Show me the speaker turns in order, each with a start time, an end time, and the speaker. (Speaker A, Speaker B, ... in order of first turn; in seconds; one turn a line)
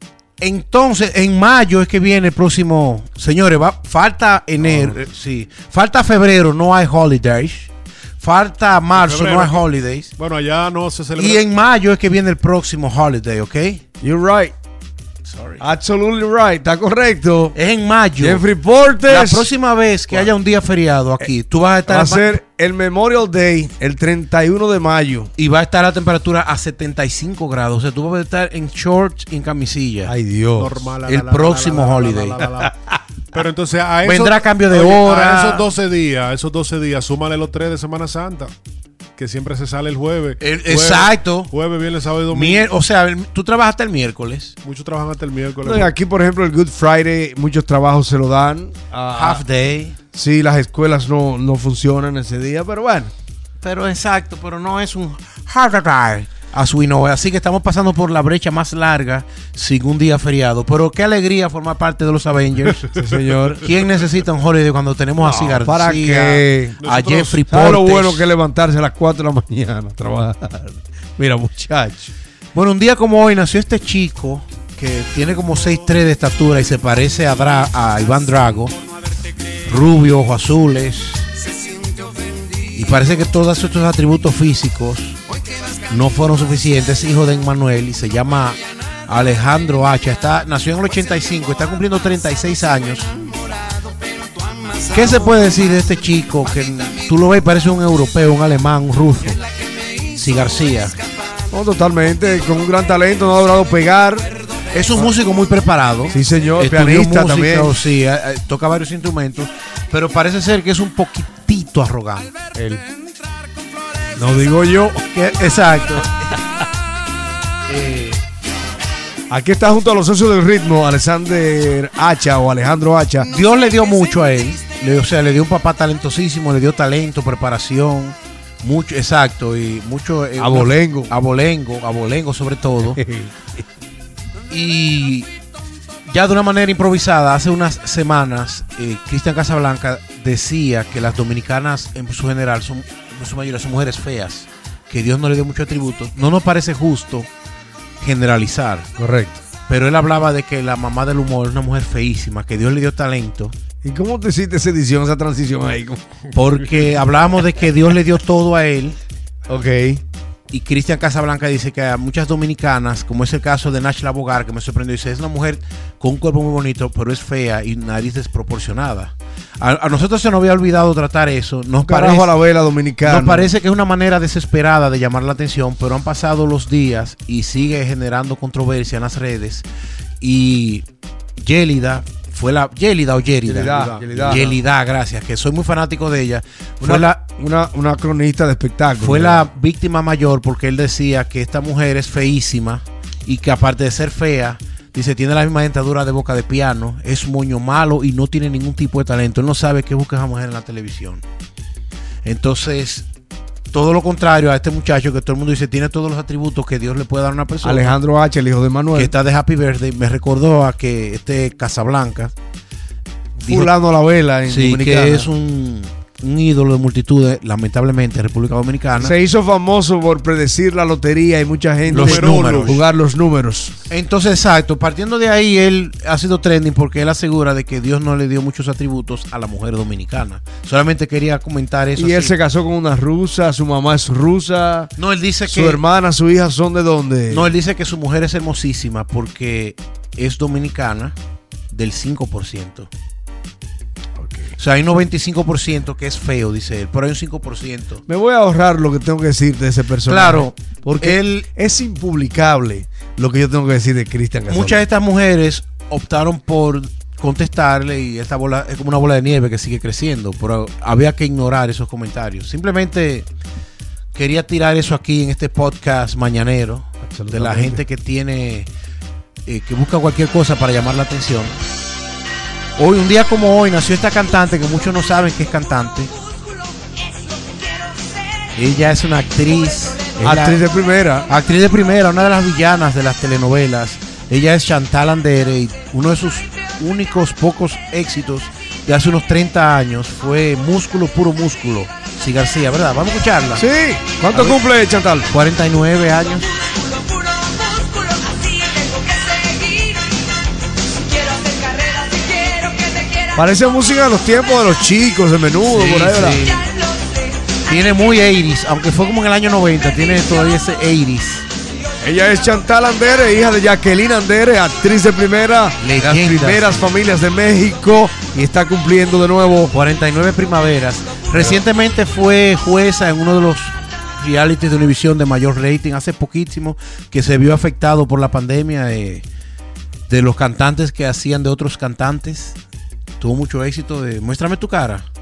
Speaker A: 0.4-10.1
Speaker B: 4.6-5.0
Speaker B: 8.9-9.6
Speaker B: 10.2-11.5
Speaker A: 11.2-13.8
Speaker C: 14.0-14.5
Speaker A: 15.2-15.7
Speaker C: 15.6-17.6
Speaker A: 17.5-18.4
Speaker C: 18.2-19.5
Speaker A: 19.0-22.4
Speaker C: 21.9-25.3
Speaker A: 25.4-30.1
Speaker C: 30.1-30.8
Speaker B: 30.6-38.5
Speaker A: 31.1-32.4
Speaker A: 34.0-35.7
Speaker B: 39.2-42.7
Speaker A: 40.4-41.5
Speaker A: 42.3-44.5
Speaker B: 44.6-45.9
Speaker C: 45.6-49.4
Speaker A: 49.1-50.0
Speaker C: 50.1-53.1
Speaker A: 53.6-62.9
Speaker C: 62.9-63.7
Speaker A: 63.6-68.3
Speaker C: 65.2-66.8
Speaker B: 66.8-67.4
Speaker C: 67.5-72.1
Speaker A: 72.5-78.7
Speaker A: 79.7-81.3
Speaker A: 82.7-85.2
Speaker A: 85.9-93.1
Speaker A: 94.9-99.4
Speaker A: 100.1-101.0
Speaker C: 101.5-104.3
Speaker A: 104.7-112.3
Speaker C: 106.1-107.8
Speaker C: 112.5-112.8
Speaker C: 114.2-115.0
Speaker A: 115.1-116.2
Speaker A: 117.7-118.2
Speaker C: 119.3-123.3
Speaker A: 123.3-133.0
Speaker C: 130.4-131.1
Speaker C: 132.8-133.5
Speaker A: 134.5-135.3
Speaker A: 136.1-147.3
Speaker A: 148.0-148.9
Speaker C: 149.0-149.4
Speaker A: 149.7-153.5
Speaker C: 153.8-156.0
Speaker A: 156.3-159.0
Speaker C: 159.5-160.0
Speaker A: 160.5-172.3
Speaker C: 171.8-173.5
Speaker A: 173.0-179.7
Speaker A: 180.2-180.8
Speaker A: 181.4-187.2
Speaker C: 183.5-184.5
Speaker B: 183.6-184.5
Speaker C: 186.8-189.5
Speaker A: 188.9-201.2
Speaker A: 202.2-203.1
Speaker A: 203.7-208.0
Speaker C: 207.6-209.1
Speaker A: 208.9-212.3
Speaker C: 213.4-215.3
Speaker A: 213.4-213.7
Speaker A: 214.5-219.2
Speaker C: 219.0-223.8
Speaker A: 221.9-222.8
Speaker B: 221.9-222.8
Speaker A: 223.9-232.3
Speaker C: 232.0-234.9
Speaker A: 235.0-235.8
Speaker C: 235.5-237.5
Speaker A: 237.3-241.2
Speaker A: 241.7-242.9
Speaker C: 244.2-244.5
Speaker A: 244.6-248.0
Speaker C: 248.1-254.8
Speaker A: 250.1-251.5
Speaker A: 254.5-263.3
Speaker A: 264.1-268.7
Speaker C: 267.1-267.8
Speaker A: 269.5-271.6
Speaker A: 272.8-276.1
Speaker A: 278.6-280.6
Speaker C: 280.2-281.3
Speaker A: 281.3-293.6
Speaker C: 293.6-295.3
Speaker A: 294.3-294.6
Speaker A: 295.3-296.5
Speaker D: 297.4-300.0
Speaker D: 301.3-303.2
Speaker C: 303.4-306.5
Speaker A: 305.6-306.7
Speaker A: 307.7-311.5
Speaker C: 312.0-319.7
Speaker A: 315.8-316.9
Speaker A: 319.7-329.2
Speaker C: 321.4-321.6
Speaker A: 330.1-332.6
Speaker A: 333.2-335.1